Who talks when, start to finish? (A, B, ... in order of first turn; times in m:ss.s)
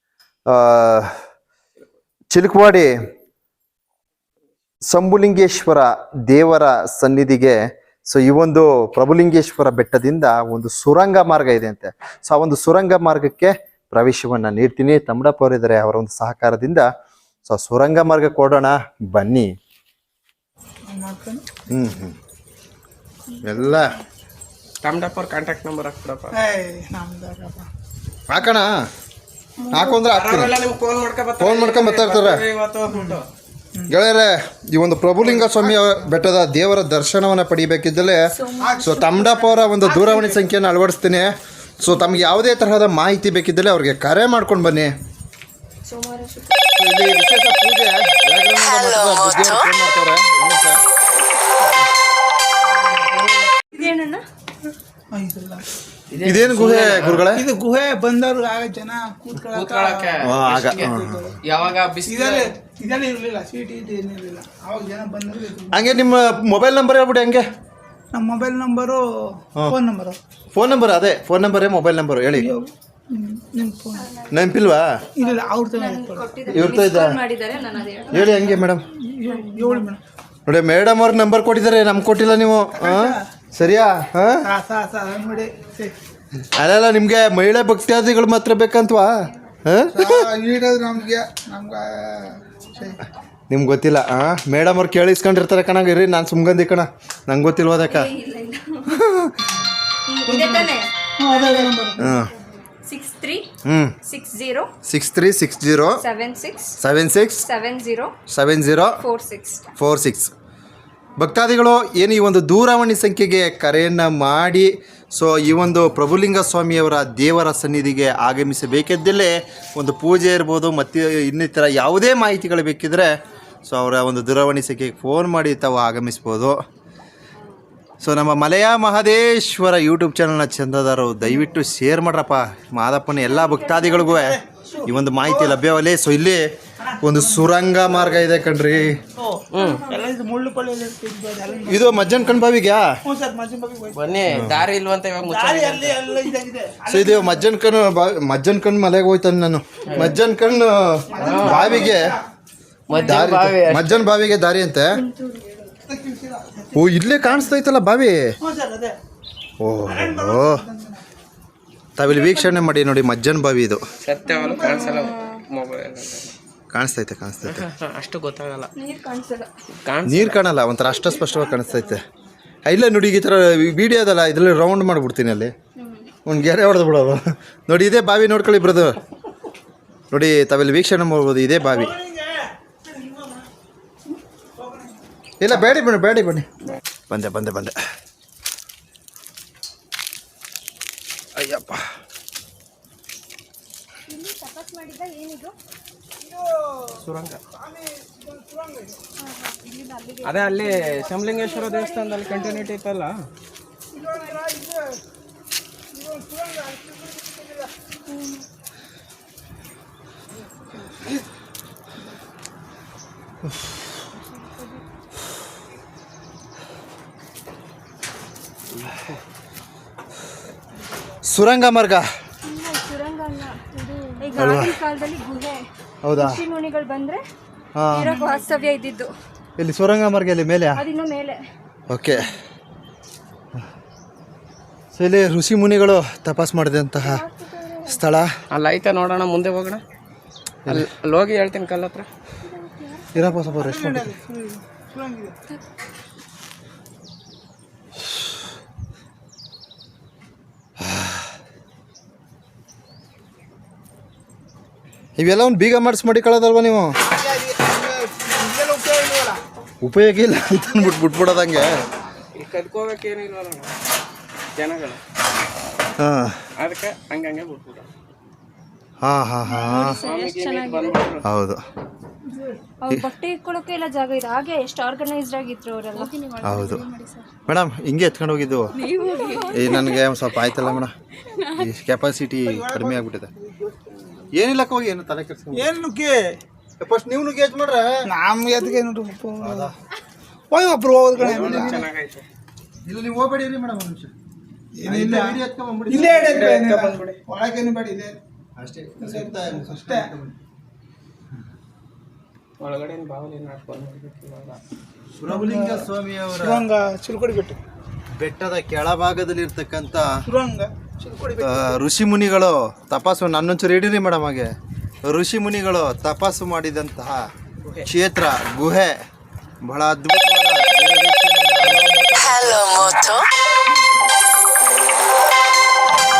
0:00.5-0:01.1 A
0:02.3-0:02.9 A
0:04.9-0:16.9 A
0:17.5-0:19.5 A
0:20.9-0:21.4 B
0:21.7-0:22.2 A
0:23.3-0:23.9 C
0:23.4-0:24.0 A
0:24.8-0:26.4 D
0:26.3-0:27.7 B
0:28.3-0:28.7 A
0:29.6-0:30.0 C
0:29.7-0:30.6 A
0:30.0-0:33.3 D
0:31.4-0:32.4 A
0:33.9-0:38.2 A
0:38.3-0:39.1 C
0:38.6-0:40.5 B
0:38.8-0:44.9 A
0:45.8-0:46.7 C
0:46.8-0:50.8 A
0:53.6-0:54.2 C
0:55.1-0:55.7 B
0:56.1-0:57.3 D
0:56.2-0:57.5 A
0:57.3-1:00.2 B
0:59.5-1:02.5 D
1:00.2-1:01.4 A
1:00.8-1:01.4 B
1:02.1-1:05.8 B
1:05.7-1:07.4 A
1:08.1-1:10.2 B
1:10.5-1:12.5 A
1:12.4-1:14.1 B
1:13.9-1:18.2 C
1:14.3-1:15.0 A
1:15.2-1:16.2 B
1:16.5-1:17.2 A
1:18.1-1:18.9 A
1:18.2-1:20.0 B
1:19.2-1:19.9 C
1:20.5-1:24.5 A
1:22.7-1:23.2 B
1:24.4-1:26.0 B
1:26.5-1:30.3 A
1:29.9-1:33.0 B
1:33.5-1:38.1 A
1:37.8-1:39.0 C
1:38.9-1:39.5 A
1:40.1-1:41.7 C
1:40.3-1:42.2 B
1:42.0-1:42.3 A
1:42.8-1:43.5 C
1:43.6-1:44.0 A
1:44.0-1:44.7 C
1:44.9-1:46.0 A
1:46.0-1:46.8 C
1:46.8-1:47.5 A
1:47.4-1:48.2 C
1:48.3-1:49.0 A
1:49.0-1:49.8 C
1:49.8-1:50.3 A
1:51.2-2:03.1 A
2:03.7-2:06.6 A
2:08.0-2:16.5 A
2:13.3-2:14.1 C
2:13.9-2:15.6 B
2:16.8-2:17.5 B
2:17.0-2:19.0 A
2:19.1-2:22.4 B
2:19.5-2:19.9 D
2:21.7-2:22.9 A
2:23.0-2:24.2 B
2:23.9-2:26.2 D
2:25.3-2:27.5 B
2:26.9-2:32.2 A
2:29.9-2:30.2 D
2:31.1-2:32.2 B
2:31.2-2:32.0 D
2:32.9-2:34.1 D
2:32.9-2:33.2 C
2:32.9-2:35.0 A
2:34.9-2:35.7 C
2:35.9-2:37.3 B
2:36.7-2:38.4 A
2:38.4-2:39.0 B
2:39.6-2:40.7 A
2:39.9-2:41.0 B
2:42.0-2:43.9 A
2:42.1-2:42.7 C
2:44.0-2:46.3 D
2:44.2-2:45.4 C
2:46.7-2:47.6 A
2:47.4-2:48.7 D
2:48.8-2:49.5 C
2:49.8-2:50.4 D
2:50.0-2:52.0 A
2:52.6-2:55.5 A
2:55.8-2:56.1 C
2:56.2-2:59.0 A
3:00.1-3:02.0 A
3:04.6-3:04.8 B
3:05.4-3:07.8 A
3:11.4-3:11.9 A
3:14.1-3:15.6 C
3:16.2-3:17.0 B
3:17.0-3:17.4 D
3:17.5-3:19.0 B
3:19.2-3:22.7 C
3:20.2-3:23.2 D
3:23.9-3:25.0 B
3:24.0-3:24.5 C
3:25.9-3:27.7 B
3:28.1-3:28.4 C
3:34.2-3:34.8 C
3:41.2-3:42.1 A
3:42.4-3:45.6 C
3:44.4-3:44.8 A
3:46.0-3:46.4 A
3:46.2-3:47.2 C
3:47.8-3:48.2 A
3:47.9-3:49.1 C
3:49.6-3:50.8 A
3:50.8-3:51.4 C
3:51.9-3:52.4 A
3:54.9-3:57.2 A
3:57.0-3:58.0 C
3:57.8-3:58.3 A
3:58.5-3:59.8 D
4:00.7-4:02.1 D
4:02.4-4:03.5 C
4:03.1-4:04.1 A
4:03.6-4:05.4 B
4:10.8-4:11.3 A
4:15.2-4:16.9 A
4:17.0-4:19.4 B
4:19.8-4:21.8 A
4:20.6-4:21.5 B
4:22.4-4:23.8 D
4:24.6-4:25.0 D
4:26.0-4:26.4 A
4:26.6-4:27.9 D
4:29.0-4:30.0 A
4:29.5-4:31.0 C
4:29.8-4:31.2 D
4:31.2-4:31.6 A
4:32.2-4:32.6 B
4:32.8-4:37.2 C
4:36.4-4:36.8 A
4:37.5-4:38.8 A
4:38.7-4:40.7 C
4:39.5-4:40.9 A
4:41.2-4:41.6 C
4:41.6-4:43.3 A
4:42.5-4:43.9 B
4:44.3-4:45.7 A
4:45.5-4:46.4 B
4:46.8-4:48.1 A
4:48.1-4:49.7 B
4:49.4-4:49.7 A
4:50.5-4:51.8 B
4:51.2-4:52.2 D
4:51.3-4:51.8 A
4:52.9-4:54.1 A
4:54.8-4:55.4 B
4:54.8-4:56.5 A
4:55.9-4:58.1 B
4:56.2-4:57.2 D
4:58.6-5:00.3 A
4:59.0-5:00.1 B
5:02.6-5:04.6 D
5:05.2-5:06.6 A
5:05.3-5:07.6 B
5:08.2-5:10.1 A
5:10.2-5:11.7 B
5:11.4-5:14.5 A
5:15.0-5:17.3 A
5:17.9-5:19.0 A
5:19.6-5:23.3 A
5:24.4-5:25.4 C